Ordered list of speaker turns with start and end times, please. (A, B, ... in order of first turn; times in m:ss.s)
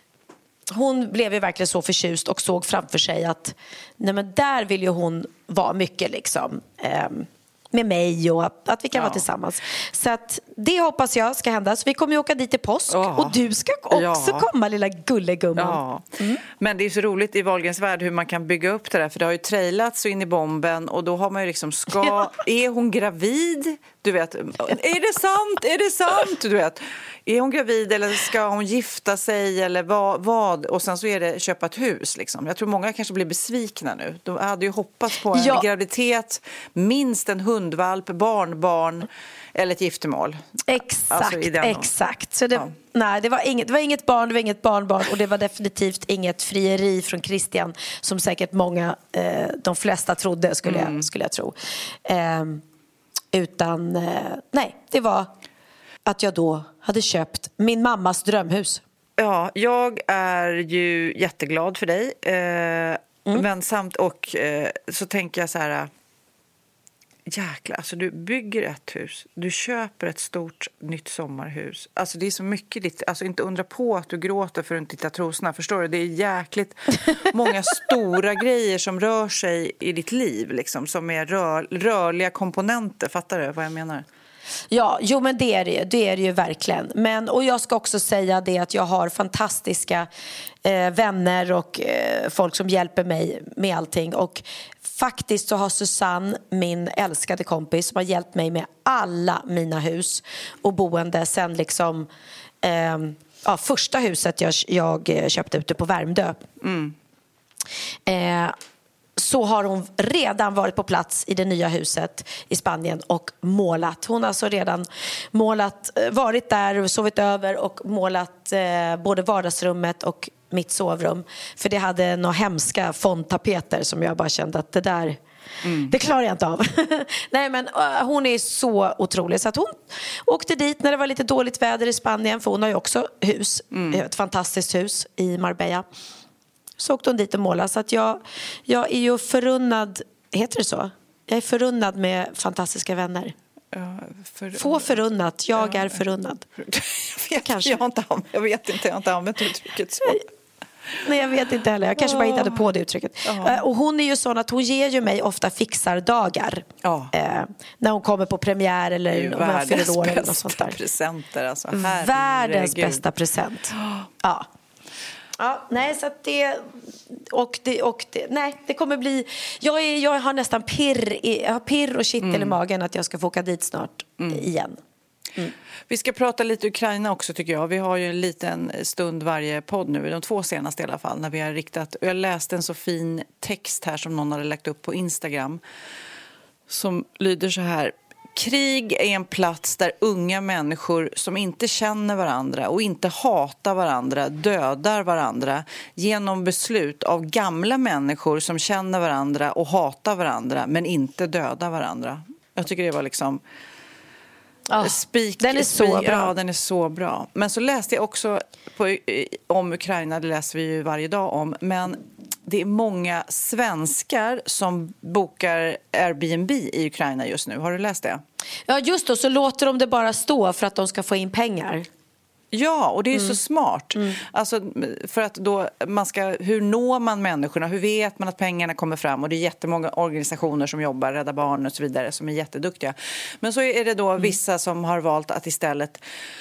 0:00.7-0:16.4 A
0:08.9-0:09.2 B
0:12.9-0:13.4 B
0:13.9-0:14.5 B
0:15.6-0:40.4 B
0:35.3-0:35.7 A
0:40.7-0:52.6 A
0:41.1-0:41.9 B
0:50.6-0:51.1 B
0:53.3-0:55.3 A
0:56.1-0:58.8 A
0:59.2-1:05.9 B
1:07.3-1:24.0 B
1:24.7-1:30.1 A
1:30.6-1:42.1 A
1:42.6-1:46.4 A
1:46.6-1:46.9 B
1:48.1-1:48.6 A
1:49.2-2:05.2 A
2:05.6-2:05.9 B
2:05.7-2:15.8 A
2:13.7-2:14.0 B
2:16.8-2:23.4 A
2:23.7-2:25.0 B
2:24.6-2:26.4 A
2:25.6-2:26.0 B
2:26.6-2:30.2 B
2:27.4-2:27.8 A
2:31.0-2:40.8 A
2:32.0-2:32.6 B
2:33.2-2:33.6 B
2:36.8-2:37.1 B
2:39.1-2:43.0 B
2:41.8-2:44.5 A
2:43.8-2:44.1 B
2:45.4-2:54.8 A
2:52.2-2:52.6 B
2:54.2-2:54.4 B
2:55.9-3:05.6 B
3:06.7-3:23.4 B
3:24.7-3:26.3 A
3:24.8-3:38.2 B
3:38.7-3:41.9 A
3:42.5-3:56.0 B